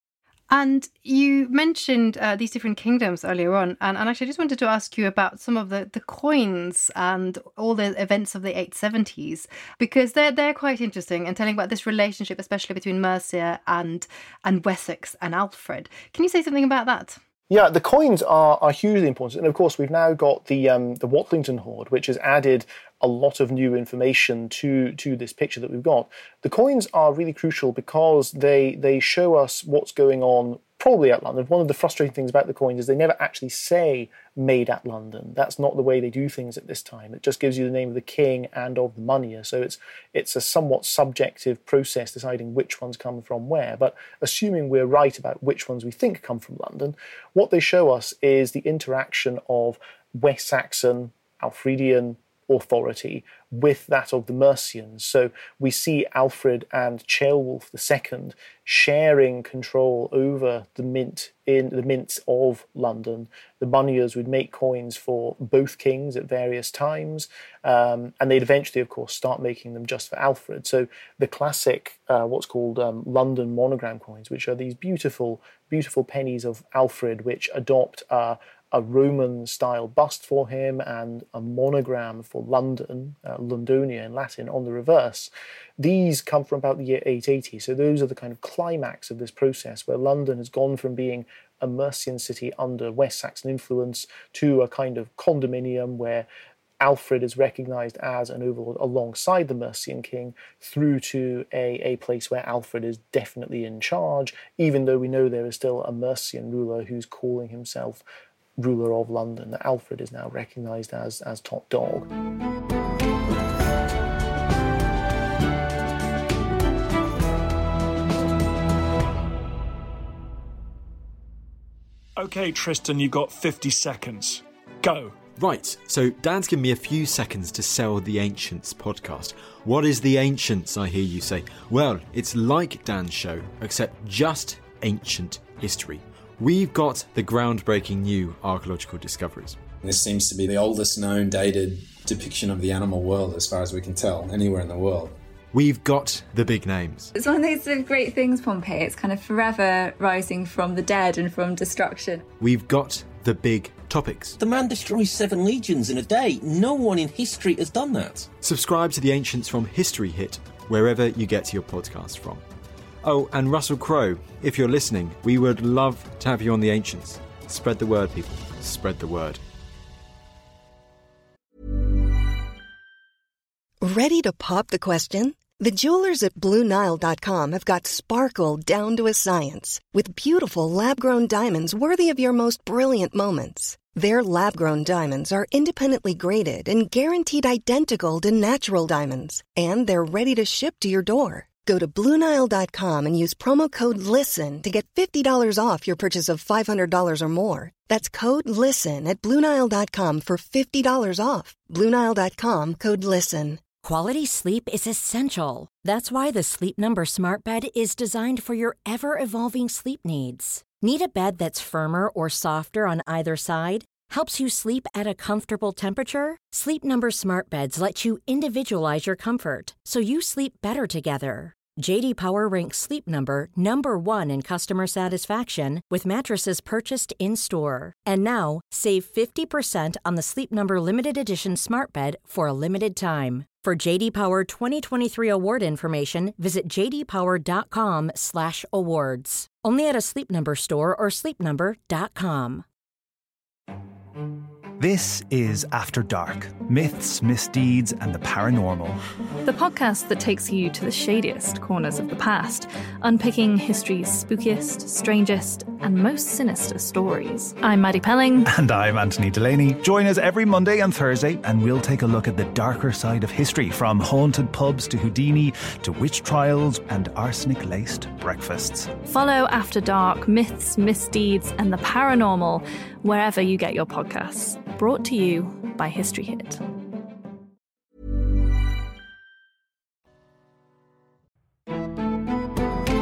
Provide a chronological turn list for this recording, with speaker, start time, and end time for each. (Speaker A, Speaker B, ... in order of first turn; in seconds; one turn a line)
Speaker A: 0.5-17.2
Speaker B: 17.5-96.3
Speaker B: 96.8-108.0
Speaker B: 108.6-112.1
Speaker C: 122.2-125.2
Speaker D: 125.3-139.6
Speaker E: 139.8-145.2
Speaker D: 145.5-147.1
Speaker F: 147.1-152.3
Speaker D: 152.4-154.3
Speaker G: 154.4-158.3
Speaker D: 158.4-162.4
Speaker D: 163.0-169.4
Speaker H: 173.8-203.6
Speaker I: 203.8-242.6
Speaker J: 244.8-249.0
Speaker K: 249.4-258.5
Speaker J: 258.4-268.9
Speaker K: 269.1-276.6